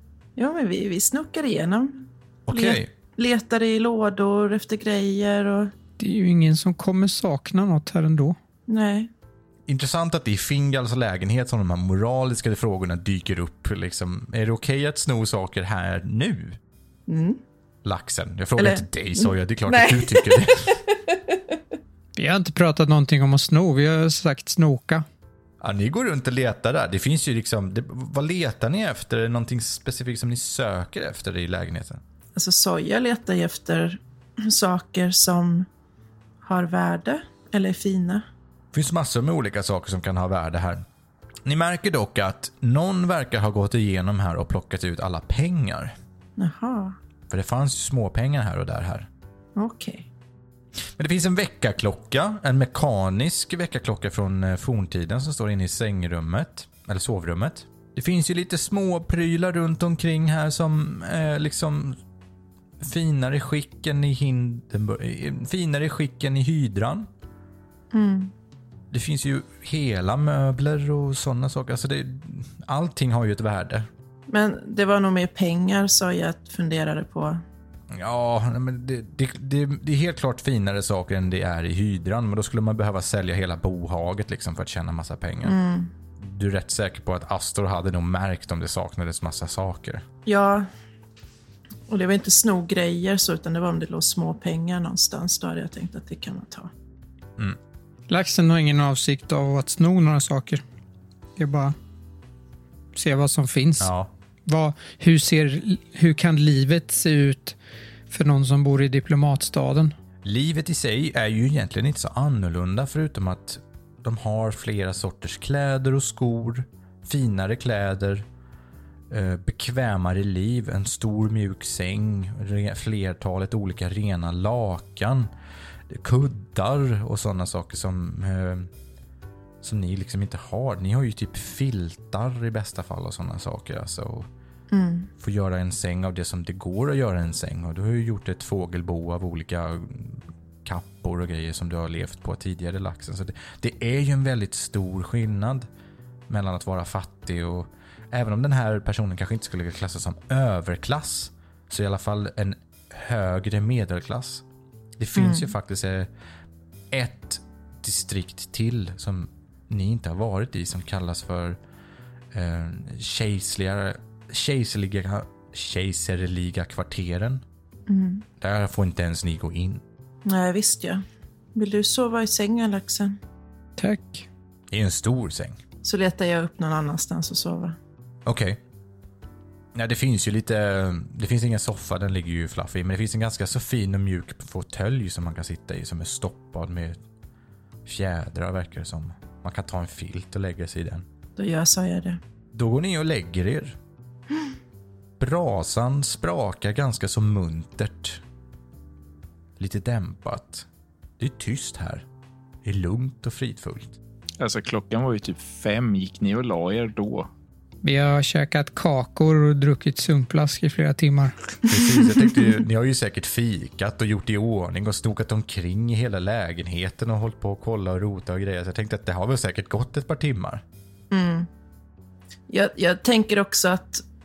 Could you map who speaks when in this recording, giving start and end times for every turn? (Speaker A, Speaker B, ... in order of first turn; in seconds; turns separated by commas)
Speaker A: 0.4-5.7, Speaker B: 2.5-2.9, Speaker C: 6.0-8.3, Speaker A: 8.7-9.1, Speaker B: 9.7-16.6, Speaker A: 17.1-17.4, Speaker B: 17.8-20.8, Speaker A: 18.6-21.6, Speaker C: 22.1-25.0, Speaker B: 25.6-32.0, Speaker A: 32.4-35.7, Speaker A: 36.4-38.2, Speaker B: 38.7-40.8, Speaker B: 41.4-45.9, Speaker A: 46.4-47.0, Speaker B: 47.3-49.1, Speaker A: 49.5-50.1, Speaker B: 51.0-62.0, Speaker B: 62.8-67.1, Speaker A: 67.9-68.3, Speaker B: 68.9-73.9, Speaker A: 74.3-77.4, Speaker B: 77.9-85.5, Speaker A: 85.4-85.9, Speaker B: 86.2-90.0, Speaker A: 90.2-90.7, Speaker A: 91.9-96.7, Speaker C: 98.1-100.6, Speaker C: 101.4-101.7, Speaker C: 102.9-103.9, Speaker B: 103.8-104.1, Speaker C: 104.5-107.5, Speaker C: 108.1-109.9, Speaker B: 110.2-118.2, Speaker B: 119.1-125.3, Speaker B: 125.9-128.7, Speaker B: 129.6-134.3, Speaker A: 134.7-135.1, Speaker B: 135.2-145.7, Speaker B: 146.3-154.4, Speaker B: 155.0-156.1, Speaker A: 155.2-155.5, Speaker B: 156.9-161.6, Speaker B: 162.3-167.4, Speaker A: 167.9-168.2, Speaker B: 168.4-169.8, Speaker A: 170.2-171.0, Speaker A: 171.5-173.2, Speaker C: 173.8-174.2, Speaker B: 174.7-175.6, Speaker A: 175.8-177.8, Speaker B: 178.2-178.6, Speaker B: 179.7-187.0, Speaker B: 187.8-191.1, Speaker A: 191.3-192.2, Speaker B: 192.5-193.8, Speaker B: 195.2-198.2, Speaker B: 199.6-200.7, Speaker B: 201.2-202.0, Speaker B: 202.6-203.9, Speaker D: 204.4-207.3, Speaker C: 207.8-211.3, Speaker B: 211.7-220.6, Speaker A: 221.1-221.5, Speaker A: 222.5-224.0